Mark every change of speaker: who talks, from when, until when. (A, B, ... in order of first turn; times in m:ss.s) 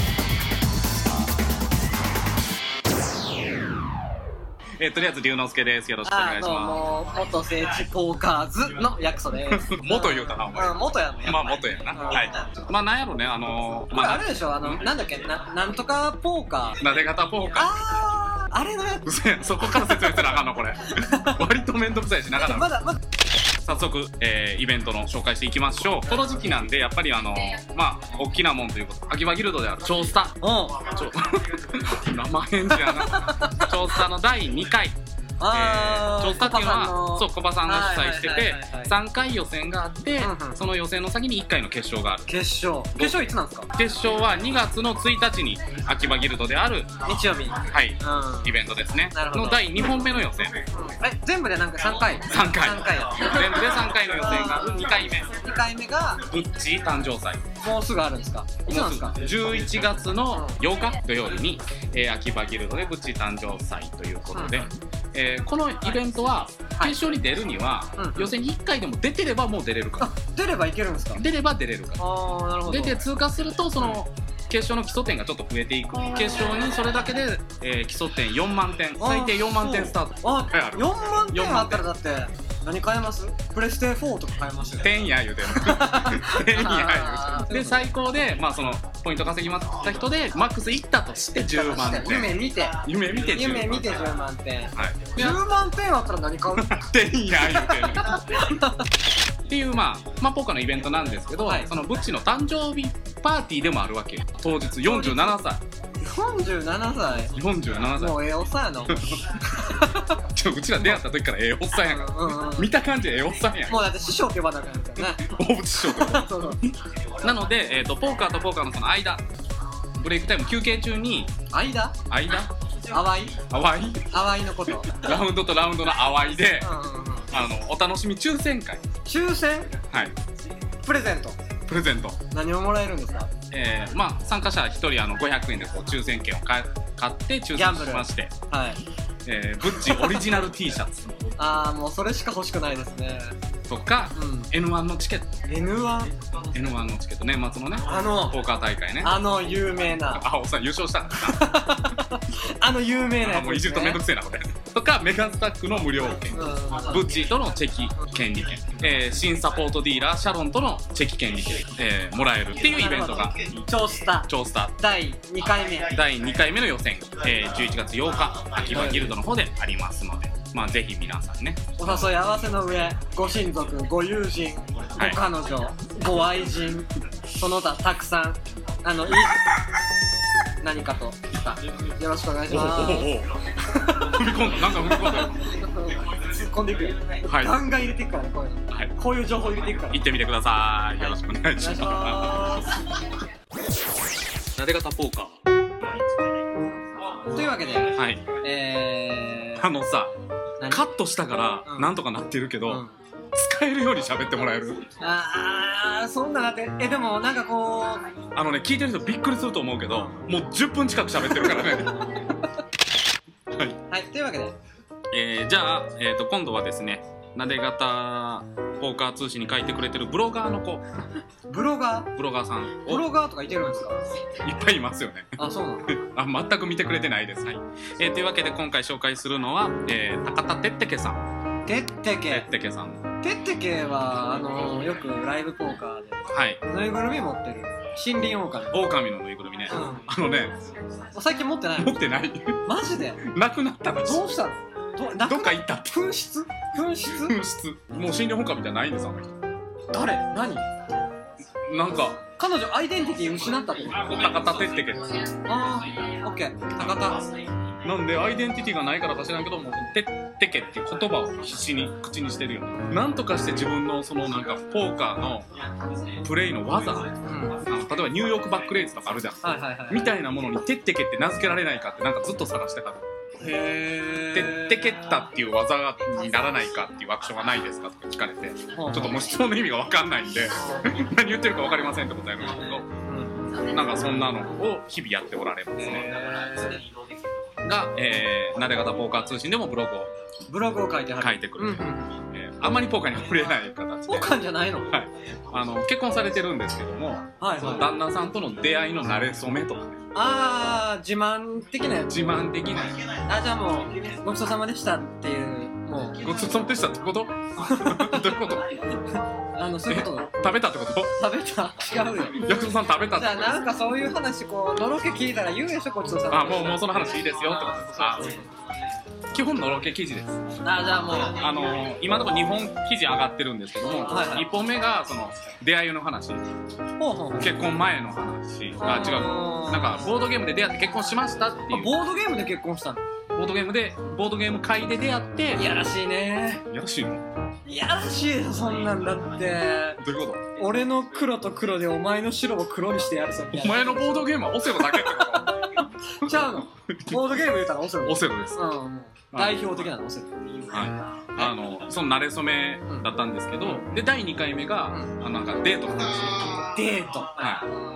0:04.8-0:06.8 A
0:06.0-0:12.4 B
0:09.5-0:14.9 A
0:13.9-0:16.8 B
0:16.8-0:17.7 A
0:17.6-0:19.1 B
0:19.0-0:22.7 A
0:19.7-0:20.4 B
0:21.0-0:21.4 B
0:22.4-0:23.0 B
0:23.6-0:30.3 A
0:30.4-0:30.8 B
0:30.9-0:35.0 A
0:32.7-0:33.7 B
0:35.4-0:38.9 B
0:35.5-0:42.3 A
0:40.2-0:40.6 B
0:42.3-0:43.7 B
0:43.0-0:43.2 A
0:43.8-0:46.9 A
0:47.0-0:48.6 B
0:47.7-0:50.7 A
0:49.1-0:49.9 B
0:50.7-0:56.2 B
0:52.2-0:55.3 A
0:56.3-0:57.4 A
0:57.6-0:59.2 B
0:58.7-1:10.1 A
1:00.3-1:00.6 B
1:04.3-1:04.7 B
1:08.0-1:08.3 B
1:10.0-1:11.2 B
1:11.2-1:12.0 A
1:12.0-1:13.1 B
1:12.6-1:21.8 A
1:16.1-1:16.5 B
1:19.0-1:27.9 B
1:24.8-1:34.0 A
1:31.5-1:36.8 B
1:34.7-1:35.4 A
1:36.6-1:38.4 A
1:37.4-1:38.8 B
1:39.5-1:45.6 A
1:41.4-1:41.7 B
1:44.8-1:45.4 B
1:46.0-1:47.3 B
1:47.4-1:48.2 A
1:48.0-1:50.2 B
1:48.9-1:49.2 A
1:50.3-1:53.8 A
1:50.8-1:51.0 B
1:51.8-1:52.7 B
1:53.7-1:55.2 B
1:55.0-1:59.2 A
1:55.8-1:56.6 B
2:00.0-2:01.3 A
2:01.5-2:02.0 B
2:02.1-2:02.5 A
2:02.9-2:03.4 B
2:03.5-2:04.1 A
2:04.1-2:05.2 B
2:04.9-2:06.7 A
2:06.6-2:07.3 B
2:07.3-2:08.8 A
2:09.1-2:09.7 B
2:10.8-2:11.4 B
2:11.7-2:12.2 A
2:12.3-2:13.3 B
2:13.5-2:18.3 A
2:17.6-2:18.8 B
2:19.2-2:21.1 A
2:19.7-2:20.2 B
2:21.4-2:23.3 B
2:23.7-2:25.3 A
2:24.2-2:24.5 B
2:25.5-2:26.1 B
2:26.5-2:29.2 A
2:27.8-2:28.4 B
2:29.0-2:30.2 B
2:30.1-2:31.6 A
2:31.2-2:34.0 B
2:33.2-2:43.4 A
2:36.3-2:37.1 B
2:42.6-2:45.9 B
2:44.3-2:44.8 A
2:45.9-2:52.2 A
2:48.7-2:49.1 B
2:51.8-2:59.4 B
3:00.6-3:03.1 B
3:02.5-3:03.4 A
3:03.7-3:10.0 B
3:04.0-3:05.4 A
3:07.2-3:07.6 A
3:09.9-3:12.6 A
3:11.0-3:12.7 B
3:14.6-3:15.4 A
3:17.3-3:19.7 B
3:17.9-3:18.2 A
3:19.6-3:20.1 A
3:20.6-3:20.9 B
3:20.7-3:22.8 A
3:21.7-3:21.9 B
3:22.7-3:23.0 B
3:23.4-3:24.8 A
3:25.0-3:28.1 B
3:28.4-3:32.3 A
3:29.9-3:30.2 B
3:31.3-3:31.7 B
3:33.9-3:34.6 B
3:35.1-3:40.8 A
3:41.5-3:42.1 B
3:42.2-3:43.0 A
3:42.8-3:44.1 B
3:44.4-3:45.4 A
3:45.4-3:45.9 B
3:45.9-3:51.2 A
3:51.7-3:52.5 B
3:52.3-3:53.0 A
3:53.2-3:56.2 B
3:56.3-3:56.6 A
3:56.7-3:58.9 B
3:58.7-4:00.6 A
3:59.7-4:00.1 B
4:01.1-4:02.0 B
4:01.8-4:02.6 A
4:02.7-4:03.2 B
4:03.2-4:04.3 A
4:04.0-4:07.4 B
4:05.2-4:06.0 A
4:07.0-4:09.3 A
4:09.9-4:10.7 B
4:11.7-4:12.2 A
4:12.4-4:14.2 B
4:14.0-4:15.1 A
4:15.5-4:17.3 B
4:17.8-4:25.5 A
4:26.2-4:27.1 A
4:27.2-4:27.6 B
4:27.7-4:33.0 A
4:29.4-4:30.1 B
4:33.4-4:35.2 B
4:34.3-4:42.9 A
4:38.8-4:39.2 B
4:43.0-4:43.6 B
4:43.7-4:46.2 A
4:45.8-4:46.8 B
4:47.6-4:50.1 A
4:50.5-4:52.1 B
4:51.2-4:54.3 A
4:54.1-4:54.9 B
4:54.9-5:00.0 A
4:57.4-4:57.9 B
5:00.2-5:02.2 B
5:02.1-5:03.0 A
5:03.3-5:06.5 B
5:06.2-5:08.7 A
5:07.6-5:08.3 B
5:09.6-5:10.3 B
5:09.9-5:11.1 A
5:11.2-5:12.5 B
5:12.4-5:13.6 A
5:13.1-5:16.8 B
5:16.3-5:18.4 A
5:18.1-5:18.4 B
5:19.3-5:20.4 A
5:20.6-5:21.4 B
5:21.3-5:26.4 A
5:24.0-5:24.5 B
5:27.0-5:27.5 B
5:27.4-5:32.0 A
5:28.8-5:30.1 B
5:31.7-5:33.0 B
5:33.3-5:35.6 A
5:35.6-5:36.6 B
5:36.7-5:37.2 A
5:37.7-5:40.0 B
5:40.0-5:40.4 A
5:40.6-5:50.7 B
5:43.5-5:45.6 A
5:46.9-5:47.2 A
5:48.0-5:48.6 A
5:49.3-5:49.6 A
5:50.7-5:56.7 A
5:54.9-5:55.1 B
5:56.7-5:57.4 B
5:57.4-5:57.7 A